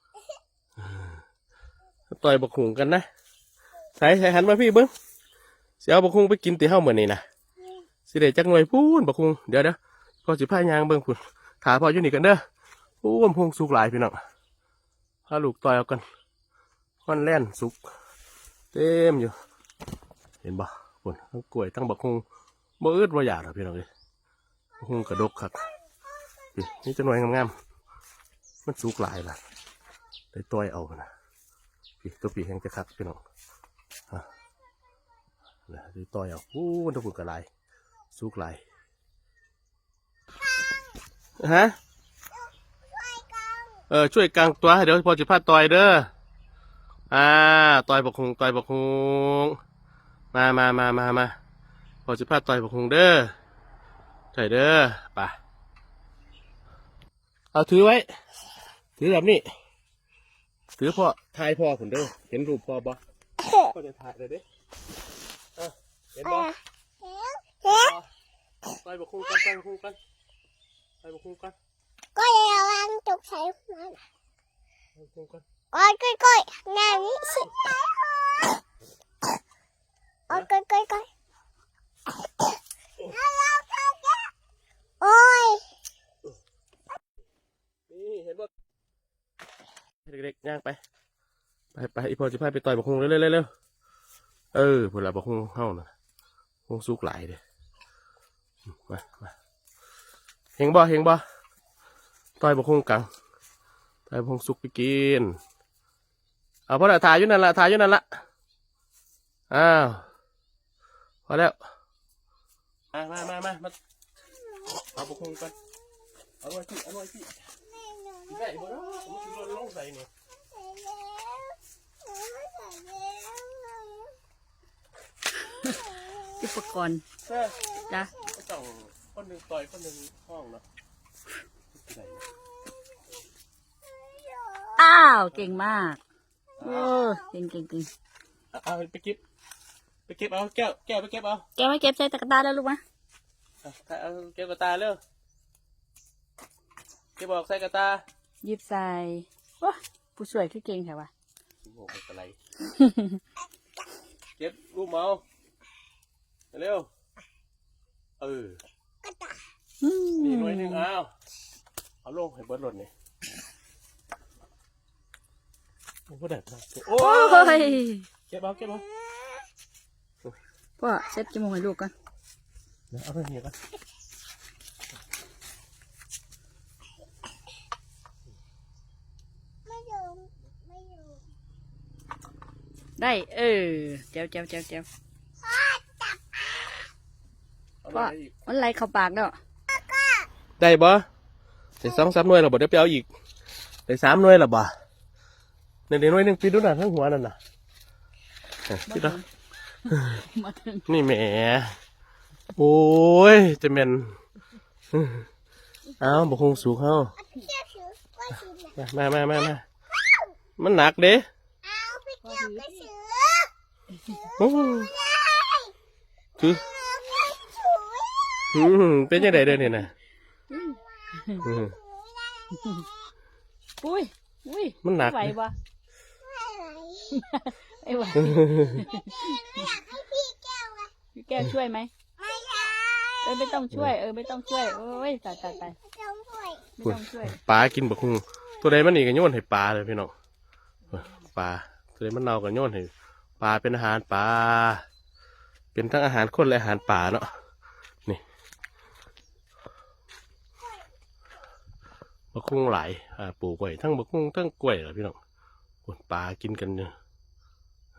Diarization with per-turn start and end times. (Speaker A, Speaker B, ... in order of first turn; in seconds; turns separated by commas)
Speaker A: 0.8-1.2, Speaker A: 2.1-3.0, Speaker A: 4.0-4.9, Speaker A: 5.8-7.2, Speaker A: 8.1-12.4, Speaker A: 13.0-14.2, Speaker A: 15.3-16.0, Speaker A: 17.1-17.8, Speaker A: 18.7-19.4, Speaker A: 20.4-22.2, Speaker A: 22.8-23.9, Speaker A: 24.8-25.7, Speaker A: 26.6-27.6, Speaker A: 28.6-29.4, Speaker A: 30.3-31.1, Speaker A: 32.0-33.2, Speaker A: 35.7-37.5, Speaker A: 38.1-38.6, Speaker A: 41.4-41.8, Speaker B: 43.0-43.6, Speaker A: 43.9-46.1, Speaker A: 47.1-49.6, Speaker A: 50.3-51.3, Speaker A: 52.0-53.3, Speaker A: 54.3-55.4, Speaker A: 57.5-58.0, Speaker A: 59.0-59.5, Speaker A: 60.8-63.0, Speaker A: 63.5-64.4, Speaker A: 65.6-66.5, Speaker B: 67.0-67.6, Speaker A: 67.6-68.1, Speaker A: 68.7-70.0, Speaker A: 71.0-71.5, Speaker B: 72.1-74.0, Speaker A: 74.9-75.4, Speaker B: 75.7-78.5, Speaker B: 80.3-81.1, Speaker B: 83.2-84.2, Speaker B: 85.0-85.6, Speaker A: 87.9-88.5, Speaker A: 90.0-90.8, Speaker A: 91.7-93.5, Speaker A: 94.5-95.9, Speaker A: 96.7-97.4, Speaker A: 98.9-99.3, Speaker A: 100.6-101.2, Speaker A: 102.4-103.1, Speaker A: 104.1-105.4, Speaker A: 106.7-108.0, Speaker A: 109.5-110.1, Speaker A: 111.3-111.5, Speaker A: 112.9-113.8, Speaker A: 114.8-115.5, Speaker A: 116.4-117.4, Speaker B: 117.8-118.2, Speaker A: 118.3-120.1, Speaker B: 120.5-121.6, Speaker B: 122.2-124.1, Speaker C: 125.4-127.0, Speaker A: 127.2-130.6, Speaker A: 131.7-132.3, Speaker B: 134.1-134.8, Speaker C: 134.8-136.0, Speaker A: 136.6-137.0, Speaker C: 136.6-137.9, Speaker A: 138.5-139.2, Speaker A: 140.1-141.4, Speaker C: 141.6-142.8, Speaker A: 143.6-145.0, Speaker A: 147.2-148.0, Speaker C: 148.4-151.1, Speaker A: 151.6-152.4, Speaker C: 152.7-153.2, Speaker A: 154.4-155.2, Speaker A: 156.5-156.9, Speaker A: 158.2-158.6, Speaker C: 159.8-160.8, Speaker A: 160.2-161.1, Speaker A: 162.0-162.9, Speaker A: 166.1-168.8, Speaker C: 166.9-168.0, Speaker C: 170.8-171.9, Speaker A: 172.9-173.5, Speaker B: 179.7-181.2, Speaker C: 183.0-184.9, Speaker B: 185.4-186.2, Speaker A: 187.8-188.3, Speaker C: 187.9-189.4, Speaker A: 190.6-191.0, Speaker A: 191.8-193.1, Speaker A: 193.9-194.7, Speaker A: 195.9-197.4, Speaker A: 198.7-199.2, Speaker C: 198.9-199.2, Speaker C: 199.8-200.8, Speaker A: 199.9-200.2, Speaker A: 200.8-201.8, Speaker A: 202.5-204.2, Speaker A: 204.9-205.2, Speaker A: 206.0-207.2, Speaker B: 207.3-208.7, Speaker A: 208.7-209.7, Speaker A: 210.6-211.2, Speaker B: 211.7-213.5, Speaker C: 212.2-212.9, Speaker A: 214.4-214.9, Speaker B: 214.8-215.7, Speaker A: 216.4-216.7, Speaker B: 216.8-218.4, Speaker A: 218.5-219.9, Speaker C: 219.2-219.7, Speaker C: 220.5-221.4, Speaker A: 221.4-221.8, Speaker C: 222.5-222.8, Speaker C: 223.8-225.5, Speaker A: 224.8-225.4, Speaker B: 226.3-227.1, Speaker C: 227.1-229.9, Speaker A: 228.2-228.8, Speaker B: 229.1-230.9, Speaker C: 231.1-231.9, Speaker B: 232.2-233.2, Speaker C: 233.2-235.8, Speaker B: 235.9-236.7, Speaker C: 236.8-237.4, Speaker A: 236.8-240.1, Speaker A: 240.9-244.8, Speaker A: 245.7-247.3, Speaker A: 252.3-255.2, Speaker A: 255.8-256.9